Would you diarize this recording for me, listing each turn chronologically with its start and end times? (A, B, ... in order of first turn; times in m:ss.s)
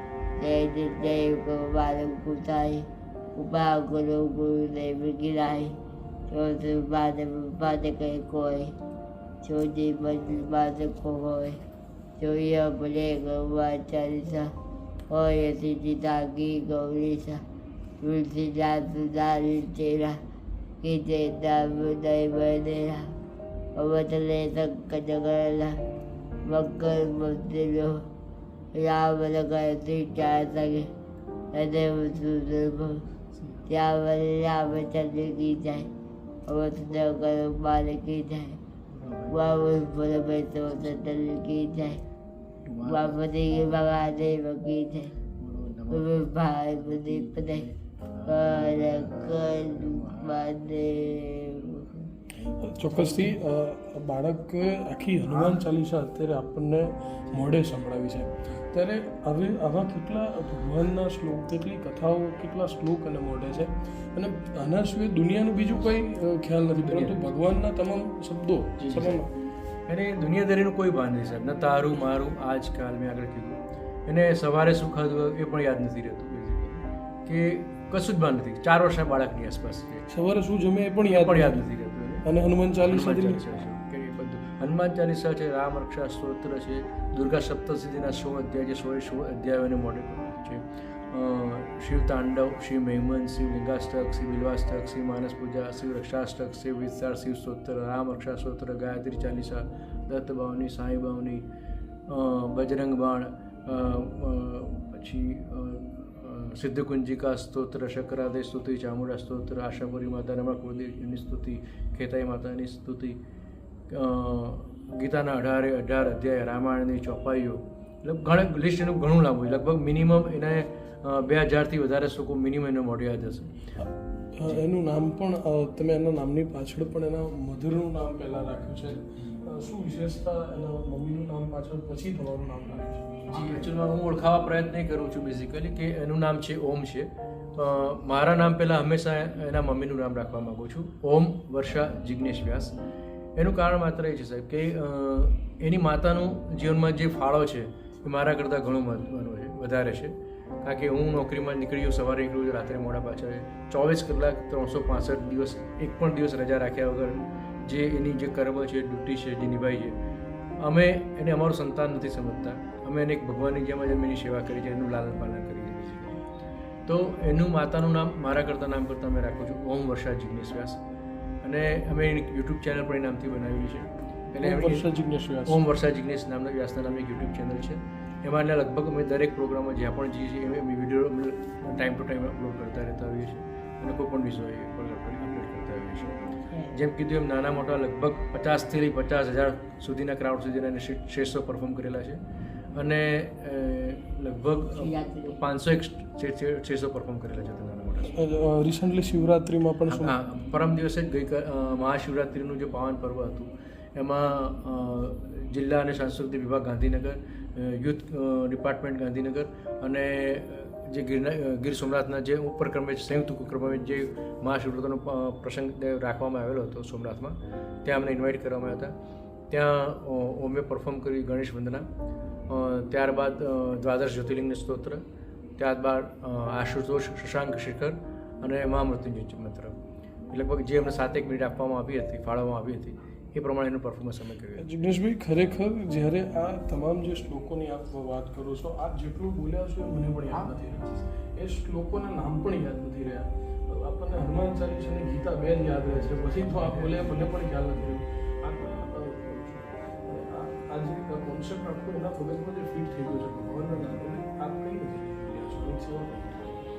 0:00.4-0:05.7 A
0:06.3-0:08.7 A
0:09.4-0:11.6 A
0:12.2-0:14.5 A
0:15.1-0:17.4 A
0:18.0-0:20.2 A
0:20.8-0:23.1 A
0:23.7-0:25.8 A
0:26.4-0:28.0 A
0:28.7-0:30.9 A
0:31.5-0:33.0 A
0:33.3-0:33.6 B
0:33.7-0:35.9 A
0:36.4-0:38.6 A
0:38.9-0:39.4 B
0:39.3-0:42.0 A
0:42.6-0:43.2 B
0:42.8-0:45.1 A
0:45.4-0:46.1 B
0:45.9-0:47.6 A
0:47.1-0:50.3 B
0:48.2-0:51.9 A
0:52.4-0:53.4 B
0:52.7-1:09.3 C
1:06.8-1:07.2 B
1:08.8-1:09.2 B
1:09.9-1:20.0 B
1:20.1-1:21.6 C
1:21.1-1:22.2 B
1:22.2-1:23.6 C
1:22.8-1:41.4 B
1:42.1-1:53.2 B
1:53.9-2:03.5 B
2:04.4-2:13.2 C
2:13.3-2:22.7 B
2:23.4-2:39.9 B
2:40.6-2:46.2 B
2:46.9-2:50.8 B
2:51.4-2:54.8 B
2:54.4-2:55.6 C
2:55.4-3:12.2 B
3:12.7-3:18.2 B
3:14.8-3:15.4 A
3:18.1-3:20.1 C
3:19.9-3:38.9 B
3:39.5-3:41.9 B
3:42.5-3:45.0 B
3:45.6-3:49.7 B
3:50.3-3:54.6 B
3:54.6-4:16.6 C
4:00.4-4:00.9 B
4:05.8-4:07.1 B